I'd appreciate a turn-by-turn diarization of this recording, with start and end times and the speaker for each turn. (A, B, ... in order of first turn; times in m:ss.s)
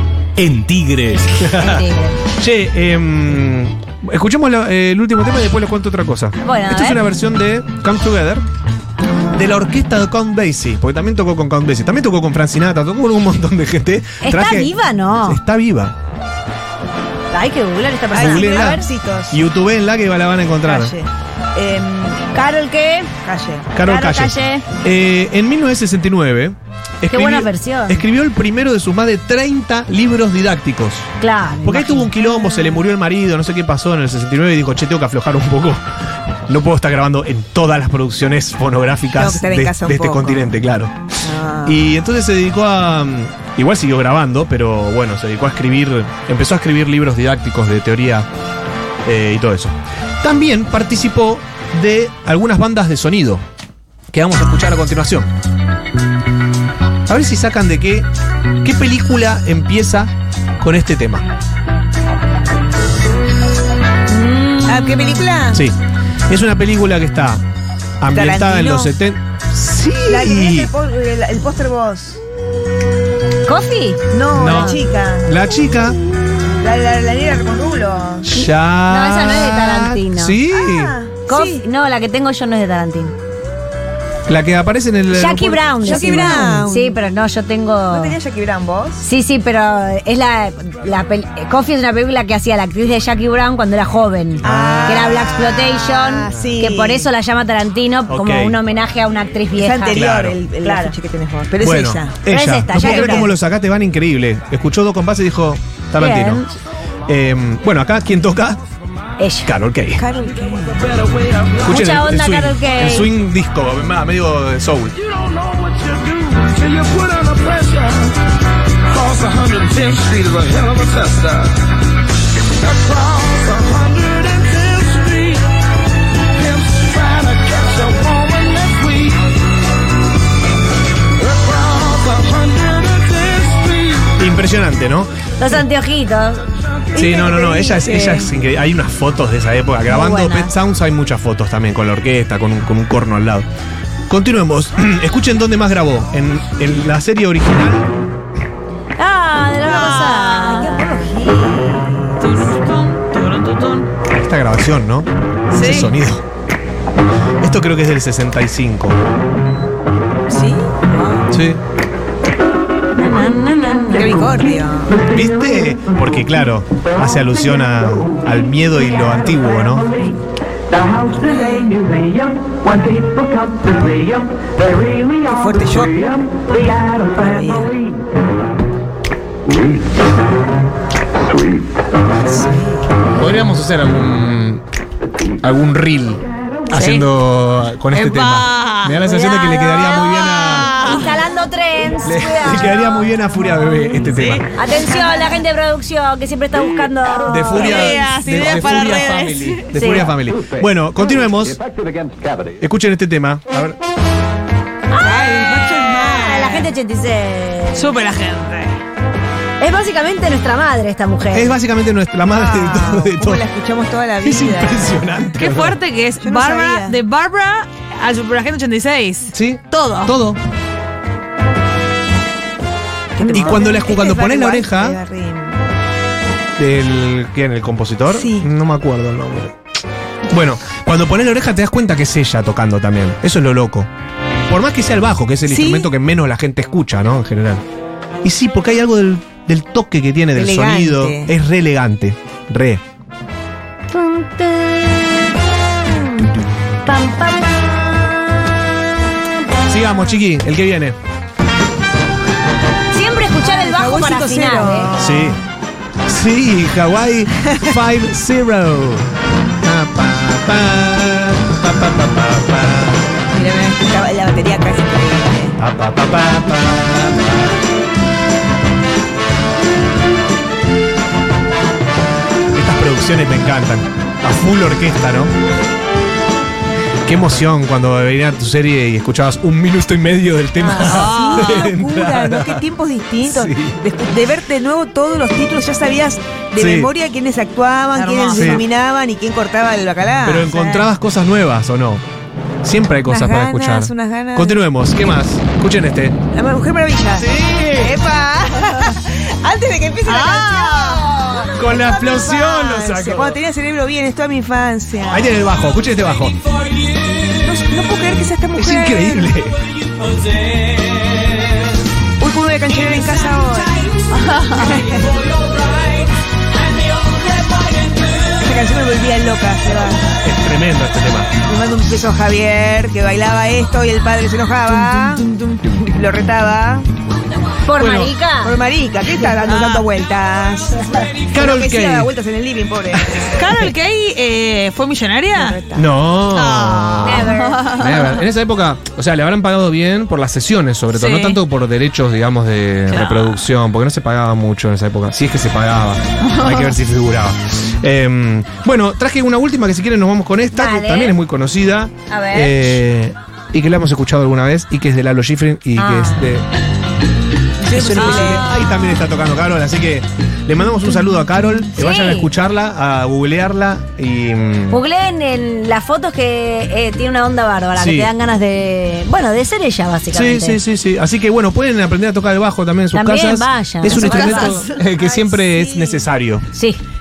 0:00.4-0:08.4 A
0:01.5-0:02.2 B
0:06.4-0:07.0 B
0:09.3-0:15.9 A
0:14.2-0:15.4 B
0:17.3-0:18.9 B
0:18.1-0:19.4 C
0:18.2-0:21.0 A
0:20.6-0:22.3 C
0:22.3-0:23.1 B
0:23.2-0:23.7 C
0:23.7-0:31.1 A
0:23.8-0:24.6 B
0:27.1-0:28.0 B
0:31.2-0:32.1 B
0:31.6-0:35.9 A
0:36.5-0:48.3 A
0:39.1-0:40.5 C
0:41.2-0:41.9 C
0:49.0-0:53.4 A
0:54.1-0:55.3 A
0:57.1-0:58.1 A
0:58.6-1:01.3 A
1:04.1-1:05.2 B
1:04.6-1:05.6 C
1:05.5-1:07.4 A
1:08.0-1:10.7 A
1:08.1-1:08.9 C
1:10.1-1:12.2 C
1:13.4-1:14.8 B
1:14.1-1:15.4 C
1:14.3-1:16.0 A
1:16.6-1:18.3 C
1:18.2-1:21.0 A
1:18.4-1:20.4 B
1:20.5-1:21.6 C
1:21.3-1:23.1 B
1:24.3-1:26.6 A
1:25.1-1:28.2 B
1:25.8-1:27.0 C
1:27.9-1:29.1 C
1:29.0-1:40.1 B
1:34.4-1:37.1 C
1:34.4-1:35.0 A
1:38.1-1:38.6 A
1:39.6-1:43.4 C
1:39.9-1:40.4 A
1:40.6-1:40.9 B
1:41.6-1:46.5 A
1:42.3-1:43.3 B
1:46.0-1:46.5 B
1:47.1-1:48.6 A
1:49.2-1:49.5 B
1:49.4-1:50.0 A
1:50.0-1:50.8 C
1:50.5-1:51.8 D
1:51.6-1:55.0 A
1:51.6-1:53.1 B
1:55.1-1:58.2 D
1:58.9-2:01.7 D
2:02.6-2:05.5 D
2:06.3-2:09.3 D
2:11.2-2:14.2 D
2:14.2-2:15.1 A
2:15.4-2:16.4 B
2:16.9-2:18.3 C
2:16.9-2:23.4 A
2:19.9-2:20.5 B
2:24.1-2:27.9 A
2:29.0-2:31.0 B
2:29.6-2:30.7 E
2:30.6-2:32.2 C
2:32.2-2:33.9 E
2:34.1-2:36.2 A
2:35.5-2:35.9 E
2:37.4-2:39.0 A
2:40.3-2:41.3 C
2:41.3-2:41.6 A
2:43.0-2:44.3 B
2:43.0-2:44.2 E
2:43.9-2:45.1 C
2:45.0-2:50.1 A
2:51.0-2:52.0 C
2:53.8-2:54.1 C
2:55.1-2:57.8 C
3:02.3-3:02.8 C
3:03.1-3:04.6 A
3:05.4-3:10.8 A
3:06.7-3:07.1 E
3:07.9-3:11.2 E
3:09.0-3:09.9 B
3:10.6-3:12.9 B
3:12.0-3:14.5 A
3:14.1-3:14.4 E
3:14.5-3:18.0 B
3:15.0-3:15.4 C
3:17.3-3:21.6 A
3:17.4-3:19.7 E
3:19.7-3:20.1 B
3:21.7-3:22.4 D
3:22.5-3:23.8 A
3:24.9-3:27.9 B
3:25.0-3:26.7 C
3:27.7-3:28.8 E
3:29.6-3:31.5 B
3:31.3-3:33.5 A
3:32.3-3:35.0 C
3:34.2-3:35.8 A
3:35.4-3:40.1 E
3:36.2-3:37.0 C
3:39.3-3:40.4 A
3:43.2-3:45.6 C
3:43.2-3:45.0 A
3:46.6-3:49.6 A
3:48.1-3:48.5 C
3:50.3-3:53.9 A
3:54.5-3:57.6 A
3:55.5-3:55.9 C
3:58.2-4:02.8 A
4:00.4-4:01.3 C
4:03.9-4:05.4 B
4:06.0-4:08.4 B
4:09.7-4:11.0 A
4:12.9-4:15.0 B
4:13.4-4:15.4 C
4:15.0-4:15.4 A
4:16.0-4:19.1 A
4:17.4-4:17.7 C
4:19.6-4:23.2 A
4:23.3-4:25.6 C
4:25.6-4:27.6 A
4:32.5-4:35.3 A
4:37.0-4:42.7 A
4:40.6-4:50.9 C
4:40.6-4:41.7 E
4:43.2-4:43.8 A
4:46.6-4:46.9 A
4:47.9-4:48.6 E
4:48.4-4:48.6 A
4:50.2-4:52.0 A
4:52.6-4:56.2 A
4:53.1-4:54.6 C
4:56.3-5:05.4 C
4:57.1-4:58.0 A
5:00.0-5:01.2 E
5:01.5-5:03.4 A
5:05.1-5:06.4 A
5:07.3-5:09.3 C
5:08.6-5:09.6 A
5:12.2-5:14.0 C
5:14.1-5:14.9 E
5:14.5-5:15.2 C
5:18.3-5:20.1 C
5:20.2-5:21.3 A
5:21.4-5:25.3 C
5:24.7-5:25.9 E
5:25.8-5:26.9 C
5:27.6-5:28.6 B
5:27.8-5:28.1 A
5:28.4-5:33.2 C
5:29.4-5:29.9 E
5:31.3-5:32.1 A
5:32.9-5:33.7 A
5:33.3-5:35.6 E
5:35.4-5:35.9 C
5:35.7-5:56.4 A
5:36.3-5:38.2 E
5:37.0-5:37.7 B
5:40.9-5:41.4 E
5:42.9-5:43.4 E
5:46.2-5:46.8 E
5:50.6-5:51.2 B
5:52.1-5:52.8 B
5:55.8-5:56.3 B
5:57.6-5:58.6 C
5:57.7-6:04.8 A
5:57.9-5:59.0 E
6:01.8-6:02.3 B
6:04.7-6:10.6 B
6:07.8-6:08.1 A
6:10.1-6:16.5 A
6:12.9-6:14.6 B
6:13.9-6:14.8 E
6:14.1-6:16.0 C
6:16.5-6:16.8 B